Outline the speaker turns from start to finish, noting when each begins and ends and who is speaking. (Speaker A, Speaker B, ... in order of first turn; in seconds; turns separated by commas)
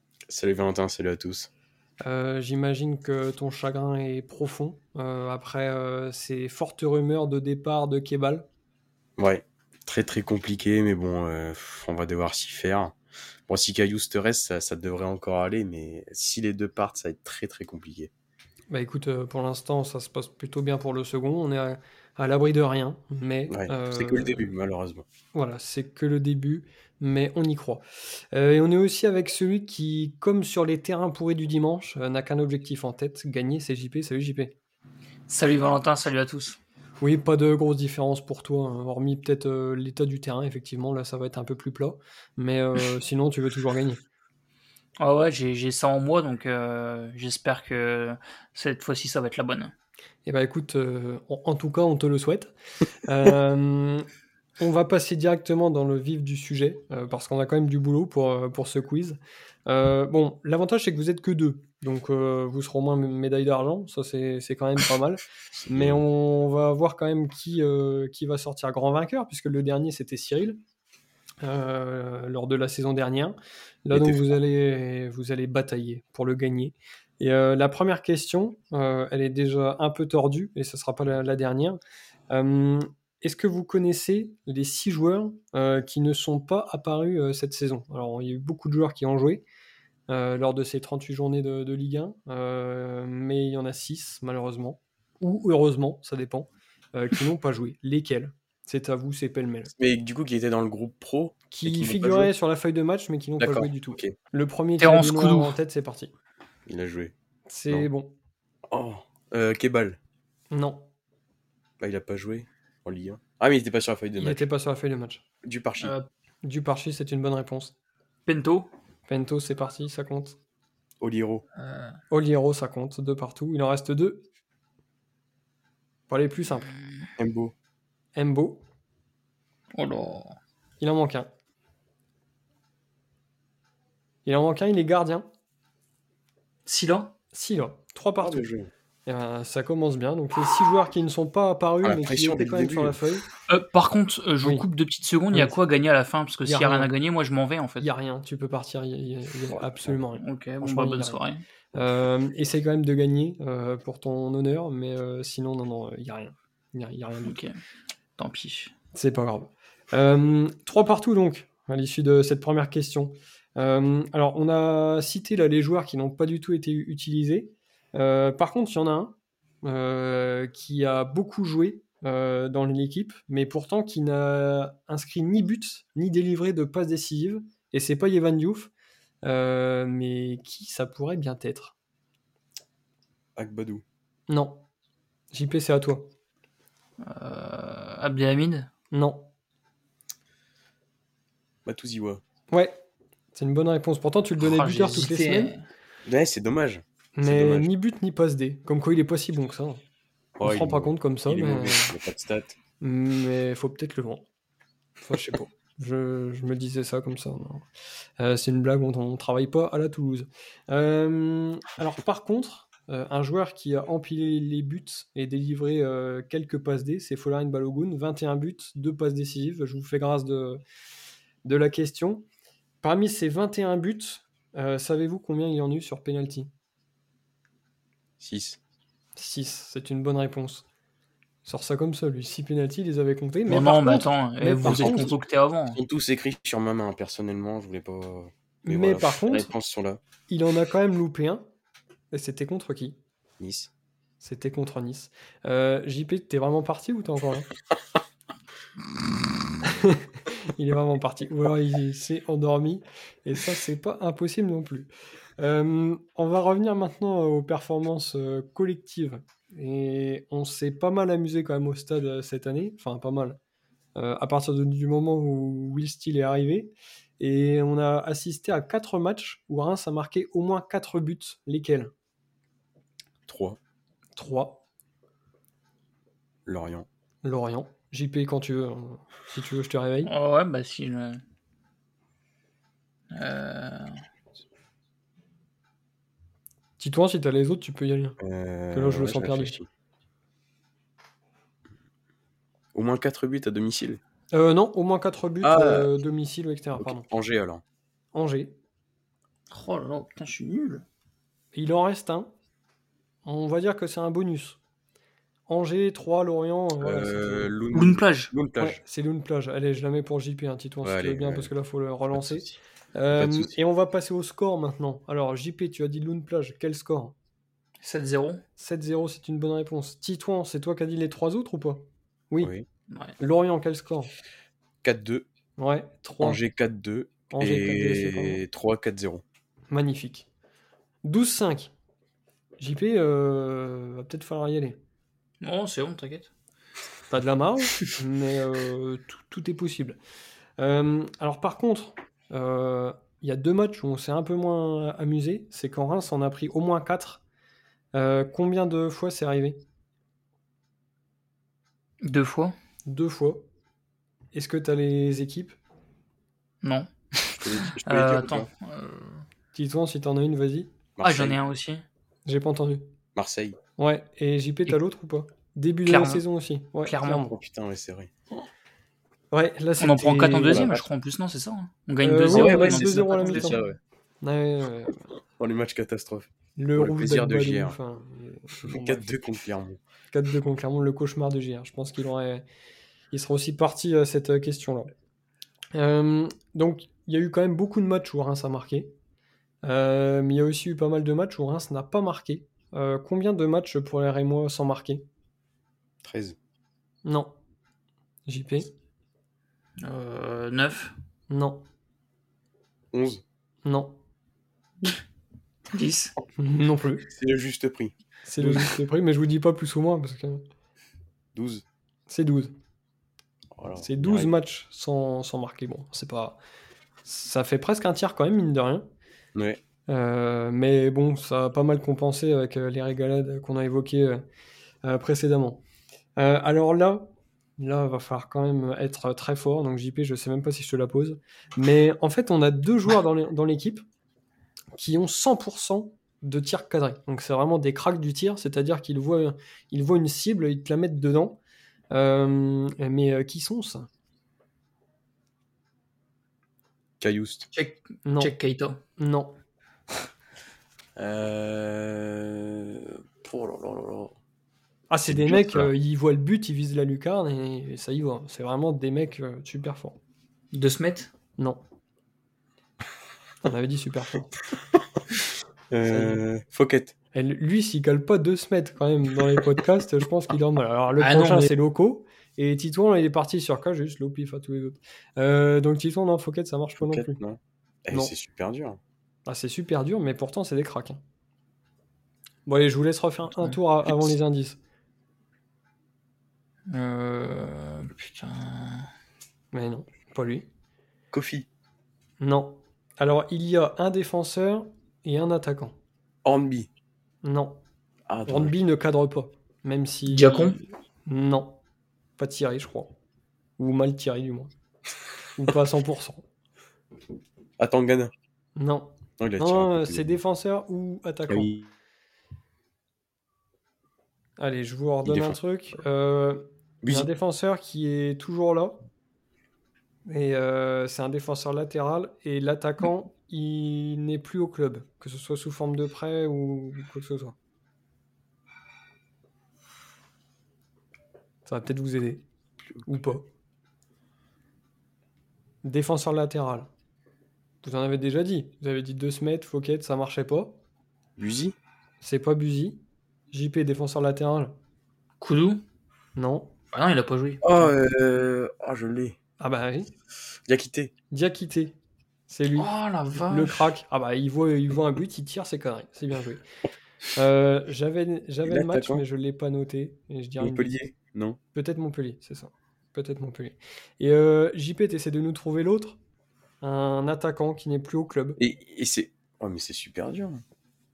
Speaker A: 0.3-1.5, Speaker B: 2.0-8.5, Speaker A: 9.2-13.0, Speaker A: 13.5-18.1, Speaker B: 18.7-24.5, Speaker A: 23.5-25.1, Speaker B: 25.3-34.5, Speaker C: 35.3-36.6, Speaker B: 37.0-44.0, Speaker C: 45.0-49.7, Speaker B: 50.3-54.1, Speaker B: 54.6-70.6, Speaker A: 65.7-66.0, Speaker B: 71.4-89.5, Speaker A: 73.9-74.4, Speaker B: 90.1-99.7, Speaker A: 99.8-102.3, Speaker B: 101.5-106.1, Speaker A: 103.4-104.1, Speaker C: 104.8-105.5, Speaker A: 106.7-107.1, Speaker B: 107.5-108.1, Speaker A: 108.7-110.0, Speaker B: 110.5-110.9, Speaker A: 111.8-114.5, Speaker B: 114.2-115.2, Speaker A: 115.4-116.0, Speaker C: 115.8-116.0, Speaker B: 116.4-117.7, Speaker C: 118.3-118.7, Speaker B: 119.1-120.4, Speaker A: 121.0-121.5, Speaker C: 121.6-122.0, Speaker B: 122.1-124.3, Speaker B: 126.1-126.7, Speaker C: 126.7-127.1, Speaker A: 127.2-127.5, Speaker B: 128.2-128.6, Speaker C: 129.7-130.4, Speaker B: 130.8-131.3, Speaker B: 134.2-135.2, Speaker C: 136.7-137.1, Speaker B: 137.3-138.5, Speaker A: 138.2-138.7, Speaker B: 139.1-143.3, Speaker A: 141.8-143.0, Speaker C: 143.5-147.9, Speaker B: 144.4-144.7, Speaker B: 145.3-145.6, Speaker B: 146.4-146.9, Speaker B: 147.8-151.2, Speaker C: 150.2-151.4, Speaker B: 151.7-157.3, Speaker C: 157.2-157.5, Speaker C: 158.2-158.7, Speaker B: 158.9-178.7, Speaker B: 179.2-181.8, Speaker A: 183.3-183.8, Speaker B: 184.3-184.7, Speaker B: 185.3-186.1, Speaker C: 187.0-188.7, Speaker B: 188.9-189.3, Speaker A: 191.7-192.2, Speaker B: 192.5-192.8, Speaker B: 193.3-195.5, Speaker C: 194.4-195.6, Speaker A: 196.0-197.7, Speaker B: 197.2-199.8, Speaker A: 200.4-202.6, Speaker B: 200.4-201.9, Speaker B: 202.8-204.3, Speaker B: 205.0-207.7, Speaker B: 208.2-220.6, Speaker B: 221.4-222.2, Speaker B: 222.8-226.5, Speaker A: 228.2-228.6, Speaker B: 229.2-230.6, Speaker B: 231.4-235.2, Speaker C: 233.5-235.8, Speaker A: 234.6-235.2, Speaker A: 235.7-240.0, Speaker B: 238.6-239.5, Speaker B: 240.3-241.4, Speaker B: 242.1-243.0, Speaker A: 243.4-243.7, Speaker B: 244.2-247.5, Speaker B: 249.6-263.4, Speaker B: 263.9-271.9, Speaker A: 273.3-273.6, Speaker B: 274.1-274.6, Speaker A: 276.4-276.9, Speaker B: 277.2-280.1, Speaker C: 280.1-281.2, Speaker C: 283.1-284.0, Speaker B: 286.8-288.2, Speaker A: 288.2-289.7, Speaker B: 288.7-289.6, Speaker A: 292.7-294.0, Speaker B: 294.3-297.1, Speaker A: 295.4-295.9, Speaker A: 296.8-297.6, Speaker B: 298.1-298.6, Speaker C: 299.5-300.8, Speaker B: 301.5-302.3, Speaker B: 303.2-304.6, Speaker B: 305.5-307.6, Speaker A: 306.8-308.8, Speaker C: 307.7-308.3, Speaker B: 308.6-317.1, Speaker A: 310.8-311.5, Speaker A: 312.1-312.6, Speaker A: 313.1-313.6, Speaker C: 317.8-318.4, Speaker B: 318.6-322.5, Speaker C: 322.9-323.1, Speaker B: 323.2-324.1, Speaker A: 324.8-325.3, Speaker B: 325.6-326.4, Speaker A: 326.2-329.2, Speaker B: 327.3-328.4, Speaker B: 329.7-330.3, Speaker B: 331.0-331.7, Speaker B: 332.6-334.8, Speaker C: 335.4-336.3, Speaker B: 337.1-340.0, Speaker B: 340.6-347.2, Speaker B: 347.9-349.6, Speaker C: 352.0-352.6, Speaker B: 352.9-353.5, Speaker B: 354.3-355.6, Speaker C: 356.6-359.2, Speaker A: 357.4-358.5, Speaker B: 359.5-360.7, Speaker A: 361.0-361.4, Speaker C: 361.0-361.8, Speaker B: 362.2-362.9, Speaker A: 363.1-363.6, Speaker B: 363.8-367.3, Speaker C: 365.9-366.2, Speaker C: 366.8-367.3, Speaker A: 367.1-368.1, Speaker B: 369.3-370.8, Speaker C: 369.8-373.6, Speaker A: 370.5-370.9, Speaker B: 372.0-373.6, Speaker A: 372.3-373.8, Speaker B: 374.2-375.1, Speaker A: 375.4-377.8, Speaker B: 376.6-379.1, Speaker A: 378.6-379.8, Speaker B: 380.1-382.4, Speaker B: 383.1-384.9, Speaker B: 385.7-388.9, Speaker B: 389.6-395.1, Speaker A: 396.0-396.4, Speaker B: 397.1-397.3, Speaker B: 398.3-398.7, Speaker C: 399.8-400.9, Speaker B: 401.3-401.6, Speaker A: 402.9-403.2, Speaker B: 403.6-404.0, Speaker C: 405.7-406.1, Speaker B: 406.4-407.1, Speaker A: 407.1-408.7, Speaker B: 408.2-410.4, Speaker A: 411.3-411.6, Speaker B: 412.1-412.5, Speaker A: 413.6-414.3, Speaker B: 413.8-416.4, Speaker B: 417.1-418.9, Speaker A: 419.3-419.6, Speaker B: 419.9-424.2, Speaker B: 424.8-425.6, Speaker B: 426.2-433.8, Speaker B: 434.7-441.4, Speaker B: 441.9-443.9, Speaker A: 447.0-447.5, Speaker C: 447.5-448.8, Speaker B: 448.1-448.3, Speaker B: 449.0-449.4, Speaker A: 450.9-454.1, Speaker B: 454.9-460.0, Speaker A: 455.1-455.7, Speaker C: 460.5-461.1, Speaker B: 463.4-464.4, Speaker A: 465.7-466.9, Speaker B: 465.8-466.2, Speaker B: 467.1-477.2, Speaker C: 471.0-471.5, Speaker A: 476.8-478.8, Speaker B: 479.3-481.0, Speaker B: 482.4-484.6, Speaker C: 486.7-488.9, Speaker B: 489.5-490.5, Speaker A: 491.1-491.5, Speaker B: 492.2-495.8, Speaker A: 496.2-496.7, Speaker B: 497.2-497.6, Speaker A: 498.1-498.5, Speaker B: 498.3-501.6, Speaker C: 500.1-500.6, Speaker B: 502.2-502.9, Speaker B: 503.6-504.5, Speaker B: 505.4-506.2, Speaker A: 507.6-508.1, Speaker B: 508.6-511.6, Speaker A: 509.2-510.1, Speaker A: 511.3-511.7, Speaker B: 514.4-518.8, Speaker A: 515.0-515.4, Speaker A: 516.8-517.1, Speaker B: 520.0-527.4, Speaker B: 531.5-532.2, Speaker B: 532.8-533.3, Speaker B: 535.6-536.7, Speaker B: 537.6-540.6, Speaker A: 541.2-541.5, Speaker B: 542.0-542.8, Speaker B: 543.3-544.5, Speaker C: 545.2-545.6, Speaker B: 546.1-546.5, Speaker C: 546.7-547.5, Speaker A: 547.4-549.2, Speaker B: 549.4-549.9, Speaker A: 550.5-550.9, Speaker B: 551.1-551.8, Speaker B: 552.3-556.4, Speaker C: 552.5-553.7, Speaker B: 557.1-560.8, Speaker A: 558.4-559.0, Speaker A: 560.4-561.4, Speaker B: 561.5-566.0, Speaker B: 566.6-568.4, Speaker A: 568.4-570.4